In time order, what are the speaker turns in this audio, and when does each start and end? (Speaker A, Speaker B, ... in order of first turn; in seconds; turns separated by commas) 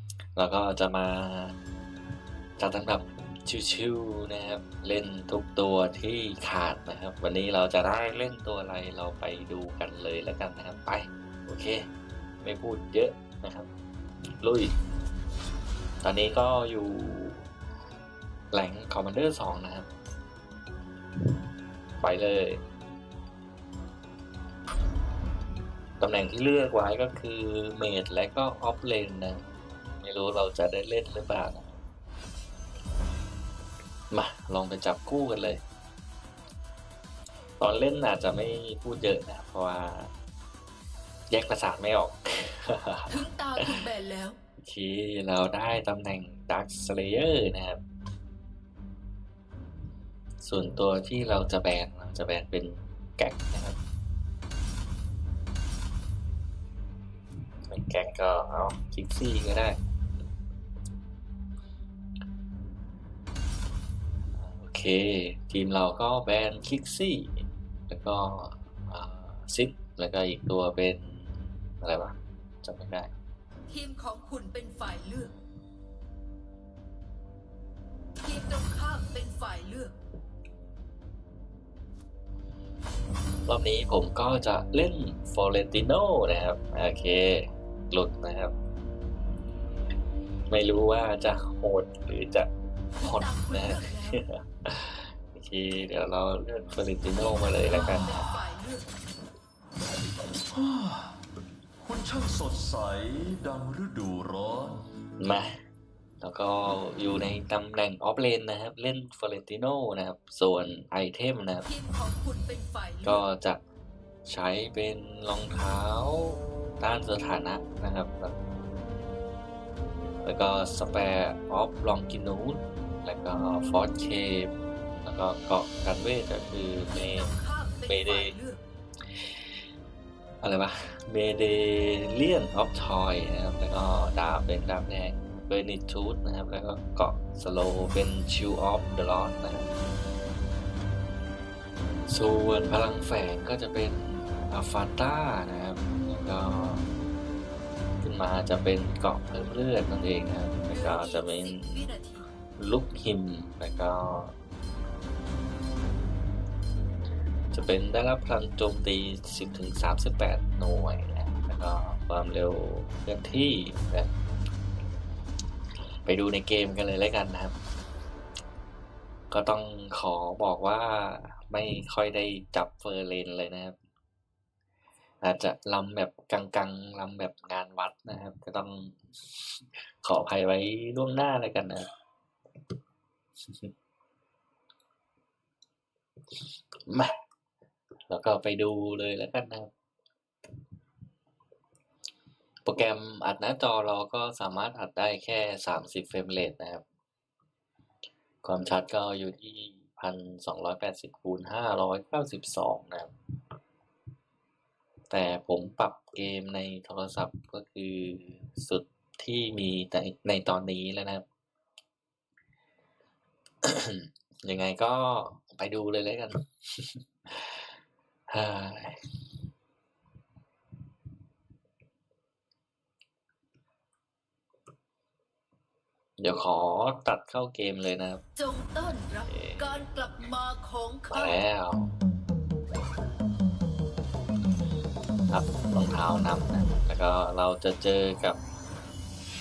Speaker A: 0.3-1.5, Speaker A: 2.6-11.8, Speaker A: 12.4-13.7, Speaker A: 14.4-14.7, Speaker A: 16.0-17.5, Speaker A: 18.5-19.9, Speaker A: 22.0-22.6, Speaker A: 26.0-29.4, Speaker A: 30.0-31.7, Speaker A: 34.1-35.6, Speaker A: 37.6-40.1, Speaker A: 41.3-43.9, Speaker B: 43.1-44.4, Speaker A: 44.6-47.8, Speaker A: 50.4-53.8, Speaker A: 57.7-59.8, Speaker A: 64.4-71.3, Speaker A: 71.8-73.1, Speaker B: 73.7-75.3, Speaker B: 78.2-79.9, Speaker A: 83.5-88.5, Speaker A: 90.5-92.5, Speaker B: 93.0-94.2, Speaker A: 93.0-98.2, Speaker B: 97.2-98.8, Speaker C: 100.5-101.2, Speaker C: 101.8-104.8, Speaker A: 105.2-105.5, Speaker A: 106.2-111.7, Speaker B: 111.6-113.2, Speaker A: 113.0-113.6, Speaker A: 114.2-118.3, Speaker A: 120.2-127.3, Speaker B: 126.9-128.6, Speaker A: 127.9-128.4, Speaker A: 130.4-139.7, Speaker A: 142.1-146.9, Speaker A: 148.0-151.9, Speaker B: 150.7-152.3, Speaker A: 152.6-154.3, Speaker A: 157.5-164.1, Speaker A: 166.1-167.5, Speaker A: 169.3-173.8, Speaker A: 175.2-181.9, Speaker A: 186.9-187.1, Speaker A: 188.1-189.7, Speaker A: 192.7-196.8, Speaker A: 198.4-203.1, Speaker A: 205.1-211.2, Speaker A: 213.6-217.7, Speaker A: 218.3-219.0, Speaker A: 226.2-228.2, Speaker B: 228.4-231.4, Speaker A: 229.3-229.9, Speaker A: 231.1-231.9, Speaker A: 235.3-238.4